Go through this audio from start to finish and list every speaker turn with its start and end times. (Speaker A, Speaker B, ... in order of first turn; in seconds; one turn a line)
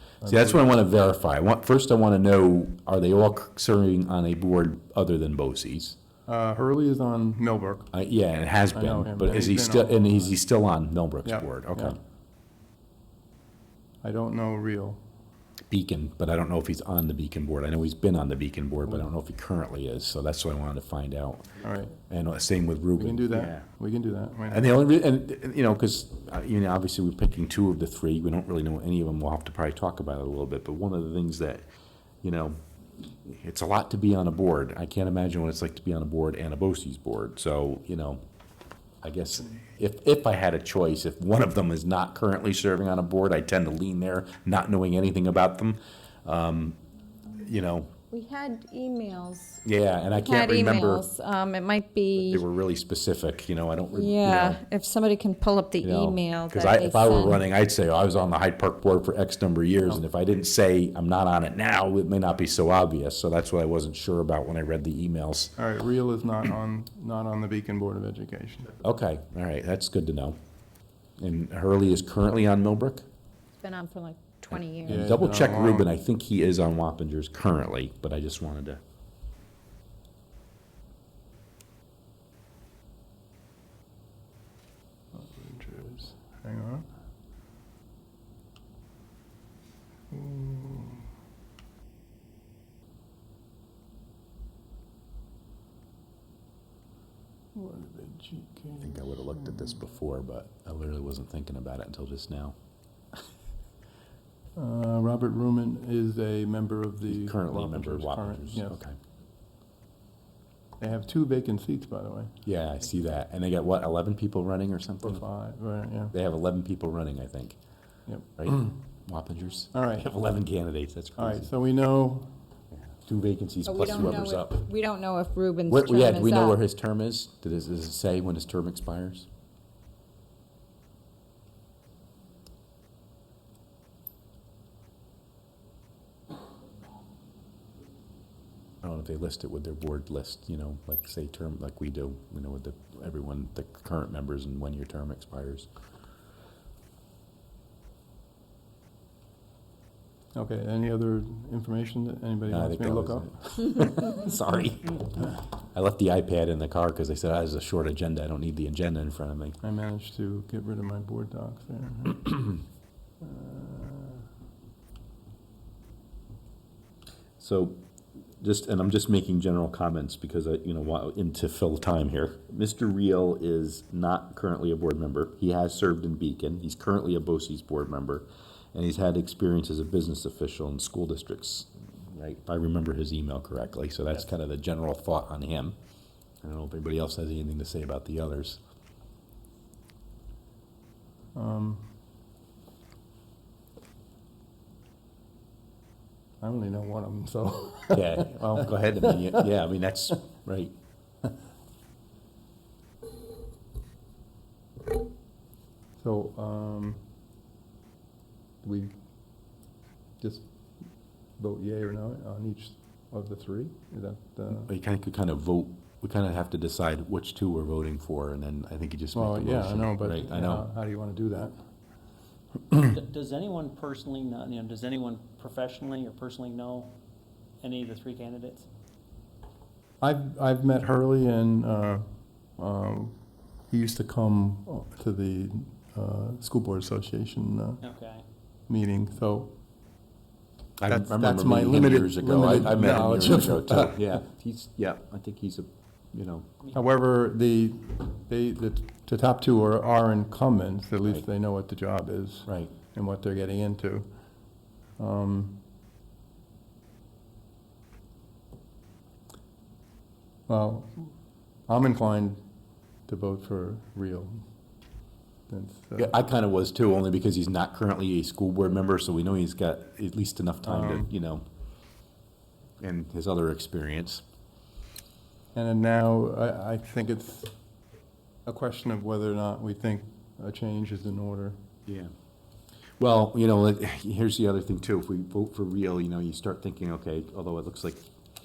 Speaker A: 0.2-0.7
Speaker B: 0.3-6.0
Speaker A: 6.3-7.9
Speaker B: 7.9-12.0
Speaker A: 8.7-10.3
Speaker A: 11.2-12.0
Speaker A: 14.0-15.0
Speaker B: 15.7-23.6
Speaker A: 21.6-21.9
Speaker A: 23.0-24.7
Speaker B: 24.5-31.6
Speaker B: 32.2-38.2
Speaker B: 39.0-46.8
Speaker B: 47.4-47.9
Speaker C: 48.1-52.4
Speaker B: 49.6-51.1
Speaker B: 52.2-54.6
Speaker C: 53.9-57.4
Speaker B: 55.8-65.5
Speaker A: 65.6-68.8
Speaker B: 68.8-70.4
Speaker B: 71.2-73.1
Speaker C: 73.6-75.1
Speaker B: 74.8-78.8
Speaker A: 74.8-75.9
Speaker A: 85.1-86.9
Speaker A: 90.1-91.1
Speaker A: 97.5-99.8
Speaker B: 98.8-102.5
Speaker A: 104.6-108.8
Speaker B: 107.1-109.0
Speaker A: 110.8-112.3
Speaker B: 112.5-115.2
Speaker A: 115.0-116.1
Speaker B: 116.1-117.6
Speaker A: 118.1-118.6
Speaker B: 118.4-121.5
Speaker A: 119.7-120.1
Speaker A: 121.2-122.3
Speaker B: 122.9-124.7
Speaker C: 123.7-126.6
Speaker B: 125.7-129.3
Speaker B: 138.8-145.7
Speaker A: 150.3-153.6
Speaker B: 152.5-159.6
Speaker A: 159.6-162.6
Speaker A: 163.2-164.2
Speaker B: 167.4-167.8
Speaker B: 168.4-185.8
Speaker B: 186.4-188.6
Speaker A: 191.3-191.9
Speaker A: 196.4-199.4
Speaker B: 197.9-200.8
Speaker A: 206.0-207.0
Speaker A: 208.6-208.9
Speaker A: 210.2-210.5
Speaker A: 211.4-214.7
Speaker B: 214.7-220.7
Speaker A: 219.1-221.5
Speaker D: 222.8-226.9
Speaker D: 227.6-228.7
Speaker A: 230.0-232.1
Speaker A: 232.6-233.2
Speaker A: 233.7-237.8
Speaker D: 237.8-238.2
Speaker A: 238.7-239.5
Speaker B: 240.8-246.5
Speaker A: 240.9-244.0
Speaker A: 246.7-254.1
Speaker B: 252.5-252.7
Speaker A: 255.0-255.6
Speaker A: 260.5-261.1
Speaker A: 261.7-262.4
Speaker A: 263.1-264.4
Speaker A: 265.5-266.1
Speaker B: 266.0-271.4
Speaker A: 270.6-271.1
Speaker B: 272.8-274.2
Speaker A: 275.5-277.5
Speaker A: 278.5-281.6
Speaker B: 281.9-282.1
Speaker B: 283.0-288.0